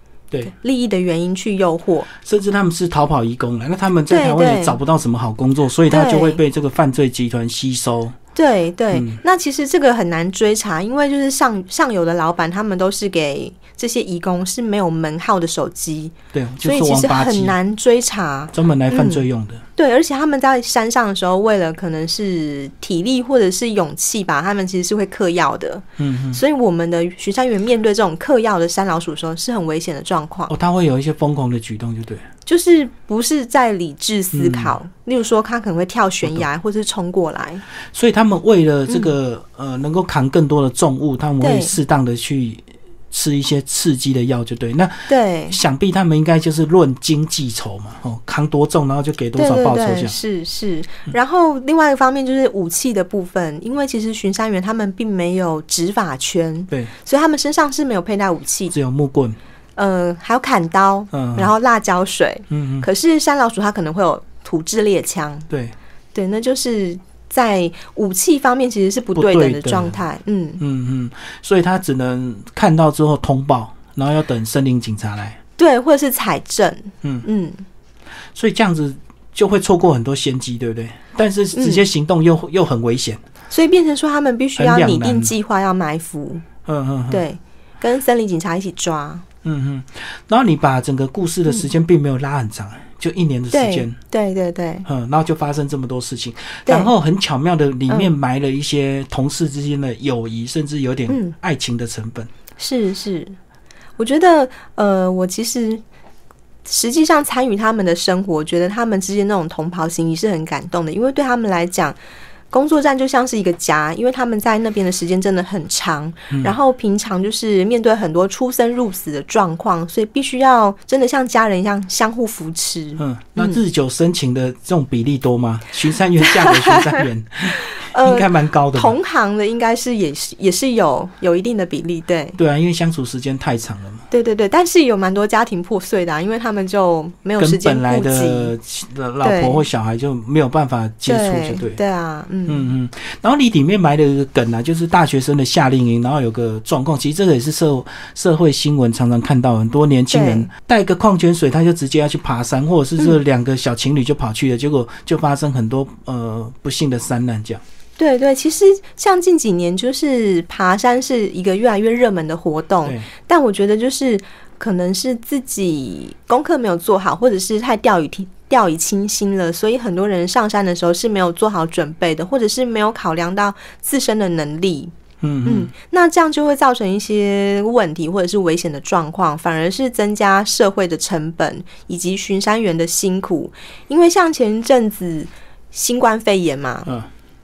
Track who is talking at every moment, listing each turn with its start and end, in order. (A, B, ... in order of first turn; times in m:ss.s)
0:00.5-0:02.1 A
0:02.2-0:08.2 B
0:04.1-0:04.8 A
0:05.9-0:06.4 A
0:08.4-0:19.2 A
0:08.9-0:09.2 B
0:16.3-0:17.6 B
0:18.5-0:19.6 B
0:19.8-0:30.5 A
0:26.0-0:26.4 B
0:30.5-0:32.3 B
0:32.5-0:37.6 A
0:34.3-0:34.8 B
0:37.9-0:50.2 B
0:41.4-0:41.7 A
0:45.1-0:45.6 A
0:49.4-0:58.7 A
0:58.7-0:59.4 B
0:59.8-1:05.5 A
1:01.1-1:01.5 B
1:02.5-1:02.9 B
1:05.5-1:05.8 B
1:06.1-1:10.6 A
1:09.2-1:10.0 B
1:10.6-1:15.4 B
1:15.6-1:17.6 A
1:18.4-1:23.2 B
1:21.6-1:21.8 A
1:23.5-1:26.5 A
1:24.6-1:25.4 B
1:26.6-1:27.2 B
1:27.1-1:29.2 A
1:29.4-1:34.0 B
1:33.5-1:34.9 A
1:34.8-1:42.3 B
1:41.1-1:41.3 A
1:42.6-1:43.4 A
1:44.0-1:45.8 A
1:46.6-1:52.0 A
1:52.5-2:03.6 A
1:56.3-1:56.6 B
2:03.0-2:09.0 B
2:06.2-2:07.0 A
2:07.8-2:12.4 A
2:12.4-2:14.1 B
2:14.1-2:18.5 A
2:17.4-2:21.8 B
2:19.2-2:19.6 A
2:21.1-2:22.7 A
2:22.5-2:37.6 B
2:30.1-2:30.5 A
2:38.0-2:54.9 A
2:42.8-2:43.1 B
2:55.2-2:55.7 B
2:55.5-3:06.9 A